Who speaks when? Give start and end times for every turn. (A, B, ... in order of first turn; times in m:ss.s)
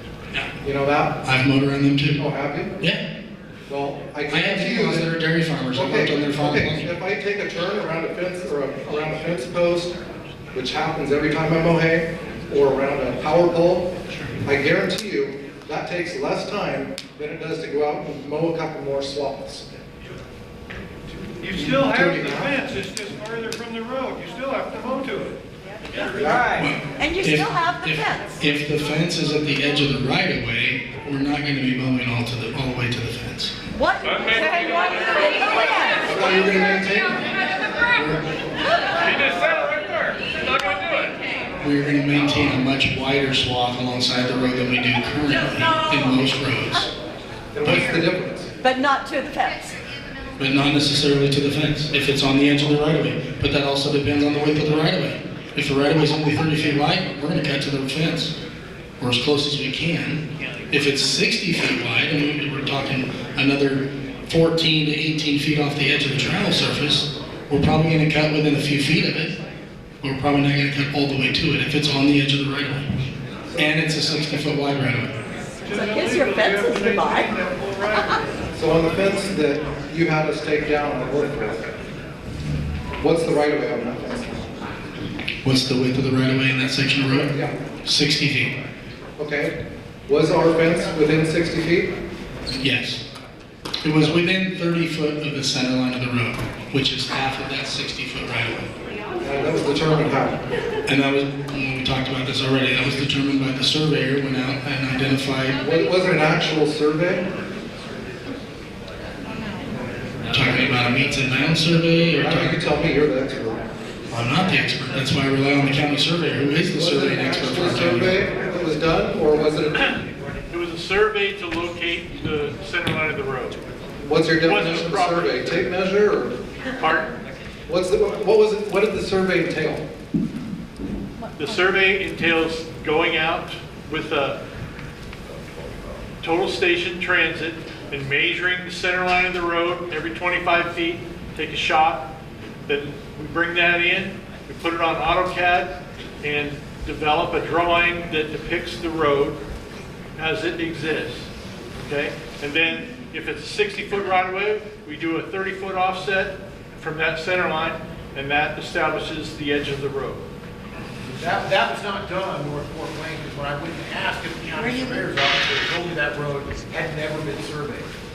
0:00.6-0:01.2 A
0:01.2-0:02.2 B
0:02.2-0:02.7 A
0:03.7-0:05.1 A
0:04.3-0:06.9 B
0:05.7-0:10.0 A
0:10.5-0:13.9 A
0:14.4-0:19.6 A
0:21.4-0:25.4 C
0:21.5-0:22.7 A
0:26.0-0:26.6 A
0:26.6-0:33.5 B
0:27.0-0:28.3 D
0:33.7-0:36.1 D
0:36.0-0:37.3 A
0:41.6-0:46.9 B
0:47.6-0:48.5 A
0:47.6-0:47.9 B
0:48.6-0:49.8 D
0:50.4-0:58.3 B
0:59.0-1:09.3 B
1:10.0-1:12.9 B
1:13.6-1:15.1 B
1:15.6-1:18.0 C
1:15.6-1:17.3 D
1:17.9-1:18.2 D
1:18.5-1:21.7 A
1:23.0-1:24.4 A
1:25.4-1:27.3 B
1:27.8-1:28.6 B
1:29.2-1:29.5 A
1:30.1-1:31.9 A
1:32.5-1:33.0 B
1:33.8-1:38.7 B
1:39.2-1:40.4 A
1:40.9-1:45.6 B
1:45.6-1:47.2 A
1:50.3-1:52.6 B
1:52.2-1:53.6 A
1:54.1-1:58.2 B
1:56.7-1:59.9 A
2:00.5-2:03.6 E
2:04.0-2:06.3 A
2:04.4-2:05.4 E
2:06.8-2:07.1 E
2:07.7-2:09.8 A
2:11.4-2:14.4 E
2:16.2-2:22.0 E
2:22.7-2:29.4 E
2:30.2-2:40.2 E
2:41.1-2:47.9 F
2:44.6-2:45.0 D